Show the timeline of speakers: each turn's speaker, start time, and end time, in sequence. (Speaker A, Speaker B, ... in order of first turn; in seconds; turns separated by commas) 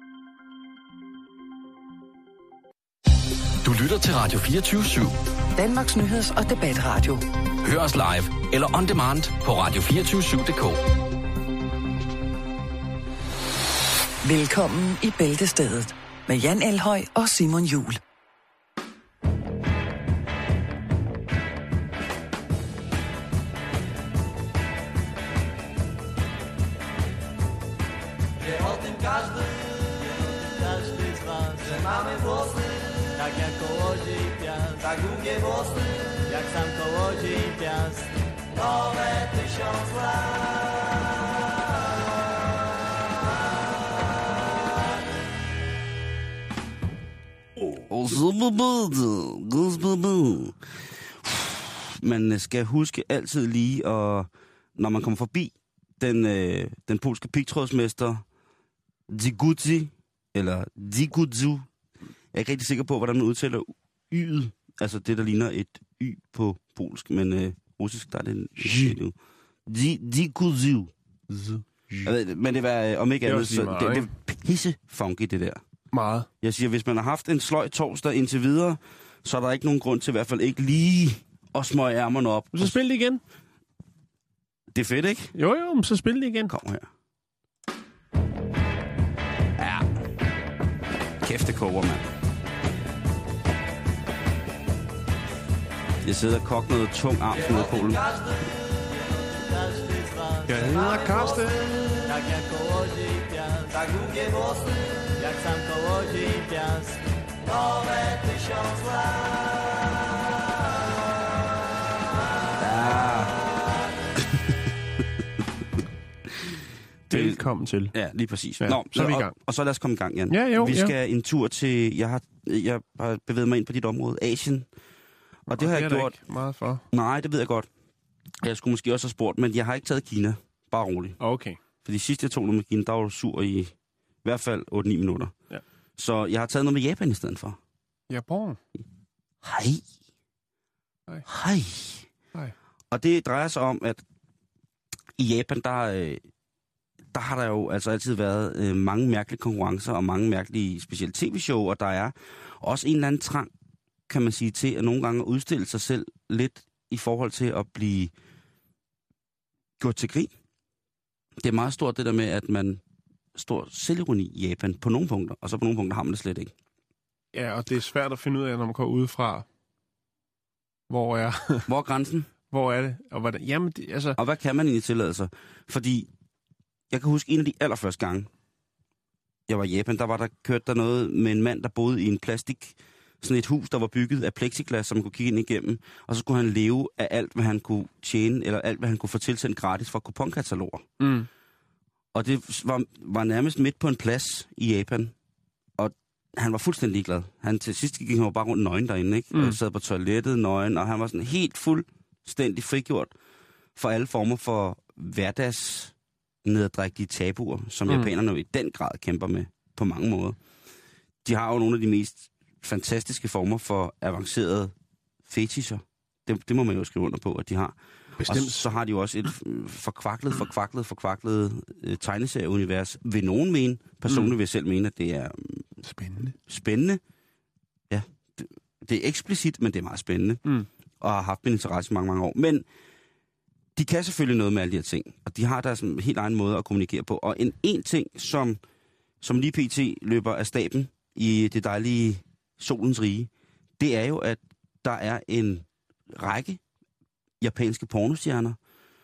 Speaker A: 3.6-5.1, Speaker B: 5.5-7.2, Speaker A: 7.7-10.7, Speaker B: 14.2-18.0, Speaker C: 28.9-29.1, Speaker C: 30.4-32.3, Speaker C: 33.3-35.5, Speaker C: 36.3-38.0, Speaker C: 39.3-39.8, Speaker D: 47.7-58.2, Speaker D: 59.1-61.7, Speaker D: 62.3-69.1, Speaker E: 68.6-69.0, Speaker D: 69.7-70.9, Speaker E: 71.3-72.1, Speaker D: 72.0-75.6, Speaker E: 73.2-74.1, Speaker E: 75.9-76.3, Speaker D: 76.4-82.7, Speaker E: 82.5-83.2, Speaker D: 84.7-85.3, Speaker E: 85.3-86.5, Speaker D: 86.5-86.9, Speaker D: 89.6-89.9, Speaker D: 91.2-92.1, Speaker D: 96.0-98.4, Speaker C: 99.5-100.8, Speaker E: 100.5-102.2, Speaker C: 102.1-104.4, Speaker C: 105.2-107.0, Speaker D: 112.5-113.4, Speaker D: 114.2-114.5, Speaker D: 117.1-124.7, Speaker E: 117.1-117.9, Speaker E: 118.6-119.3, Speaker E: 120.3-120.9, Speaker E: 125.5-126.8, Speaker D: 125.5-126.1, Speaker D: 126.9-127.7, Speaker D: 128.4-131.2, Speaker E: 131.2-131.6, Speaker D: 131.8-135.3, Speaker D: 136.0-137.6, Speaker E: 138.1-138.6, Speaker D: 139.4-139.8, Speaker D: 141.2-142.1, Speaker D: 142.9-144.0, Speaker D: 145.2-146.2, Speaker D: 147.1-153.5, Speaker D: 154.1-158.1, Speaker D: 159.8-160.3, Speaker D: 161.4-162.8, Speaker D: 163.3-166.5, Speaker E: 167.3-169.4, Speaker E: 170.9-171.7, Speaker D: 171.7-172.3, Speaker E: 172.5-174.2, Speaker D: 174.2-176.1, Speaker D: 176.9-178.3, Speaker D: 179.5-190.8, Speaker E: 191.0-191.3, Speaker D: 192.1-195.1, Speaker D: 195.8-203.1, Speaker D: 203.8-210.4, Speaker D: 211.2-214.7, Speaker D: 215.3-225.7, Speaker E: 218.2-218.7, Speaker E: 224.1-224.3, Speaker E: 225.8-226.3, Speaker D: 226.4-227.0, Speaker D: 227.9-230.4, Speaker D: 231.0-232.6, Speaker D: 233.8-238.6, Speaker D: 239.2-246.6, Speaker D: 247.4-248.6